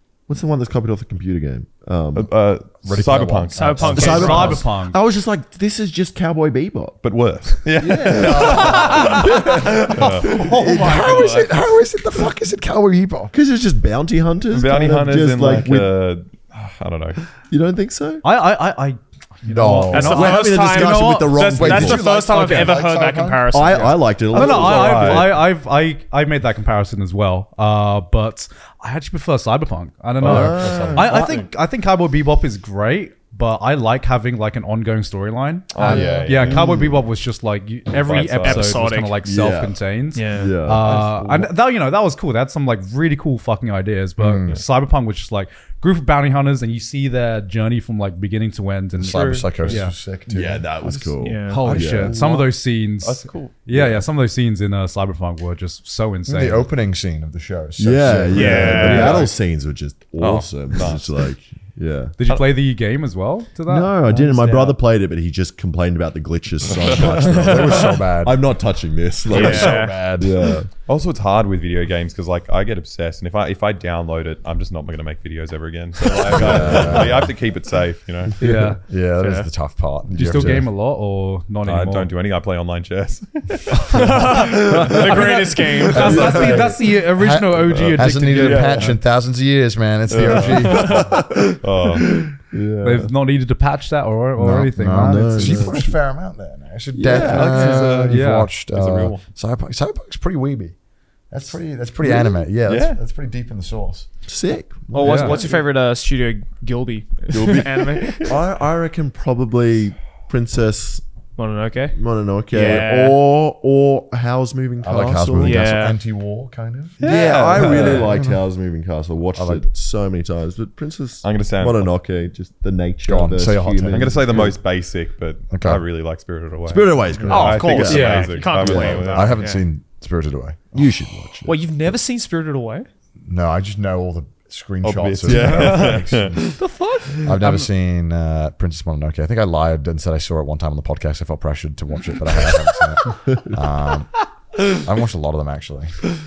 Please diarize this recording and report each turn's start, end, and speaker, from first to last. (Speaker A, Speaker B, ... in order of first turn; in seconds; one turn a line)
Speaker A: 0.3-2.3
Speaker B: 2.1-4.0
Speaker C: 2.8-4.7
Speaker D: 3.6-4.6
Speaker A: 3.9-7.0
Speaker E: 4.0-5.0
Speaker B: 7.0-11.5
Speaker A: 7.8-9.7
Speaker C: 8.1-13.3
Speaker E: 10.2-11.3
Speaker A: 13.3-15.9
Speaker B: 14.5-17.2
Speaker A: 17.5-18.2
Speaker E: 18.2-21.9
Speaker C: 19.4-20.5
Speaker D: 19.9-24.2
Speaker A: 19.9-22.1
Speaker C: 21.3-23.6
Speaker A: 23.5-25.4
Speaker E: 24.3-50.0
Speaker B: 24.3-25.4
Speaker A: 30.2-31.5
Speaker C: 30.2-31.4
Speaker B: 35.7-36.7
Speaker C: 35.9-36.5
Speaker A: 36.4-37.0
Speaker B: 37.9-38.8
Speaker D: 38.1-39.2
Speaker A: 39.2-41.5
Speaker D: 40.1-40.6
Speaker C: 44.2-44.6
Speaker C: 49.0-51.2
Speaker A: 50.3-52.4
Speaker D: 51.2-51.9
Speaker E: 51.4-56.7
Speaker B: 51.8-53.7
Speaker C: 56.3-59.3
Speaker A: 57.8-62.1
Speaker D: 58.3-59.3
Speaker B: 60.2-61.1
Speaker E: 62.2-64.6
Speaker B: 62.2-62.5
Speaker A: 63.7-70.7
Speaker D: 67.2-68.0
Speaker C: 67.2-68.5
Speaker D: 69.3-70.0
Speaker C: 69.3-70.5
Speaker B: 70.9-78.4
Speaker A: 76.3-77.1
Speaker C: 76.4-77.3
Speaker E: 78.4-78.8
Speaker C: 78.4-80.7
Speaker D: 79.2-79.5
Speaker E: 80.1-82.1
Speaker B: 81.7-85.2
Speaker D: 83.9-86.6
Speaker E: 84.0-89.0
Speaker A: 84.7-85.2
Speaker C: 85.9-91.2
Speaker A: 86.0-86.7
Speaker B: 87.7-89.0
Speaker B: 90.1-92.2
Speaker A: 90.6-93.1
Speaker E: 92.8-95.9
Speaker C: 94.4-100.8
Speaker A: 94.9-95.9
Speaker A: 96.9-98.1
Speaker B: 97.1-99.2
Speaker E: 98.1-98.5
Speaker C: 101.3-104.1
Speaker A: 102.0-102.4
Speaker B: 102.7-103.0
Speaker A: 104.3-105.5
Speaker D: 104.9-108.3
Speaker E: 105.0-105.4
Speaker A: 107.3-111.0
Speaker B: 108.0-108.3
Speaker D: 111.4-112.0
Speaker A: 111.9-115.8
Speaker D: 112.5-113.2
Speaker C: 114.8-117.0
Speaker D: 115.4-116.0
Speaker B: 117.0-118.2
Speaker A: 117.0-124.5
Speaker C: 117.8-118.4
Speaker C: 119.4-119.7
Speaker B: 121.2-121.9
Speaker C: 123.0-124.5
Speaker B: 123.9-129.4
Speaker C: 125.5-125.8
Speaker A: 126.7-129.1
Speaker C: 127.2-127.6
Speaker D: 127.3-129.7
Speaker C: 129.1-131.5
Speaker A: 130.8-131.7
Speaker D: 131.4-132.9
Speaker C: 133.3-136.5
Speaker B: 134.8-136.6
Speaker E: 135.3-135.8
Speaker D: 136.6-137.3
Speaker C: 137.2-146.0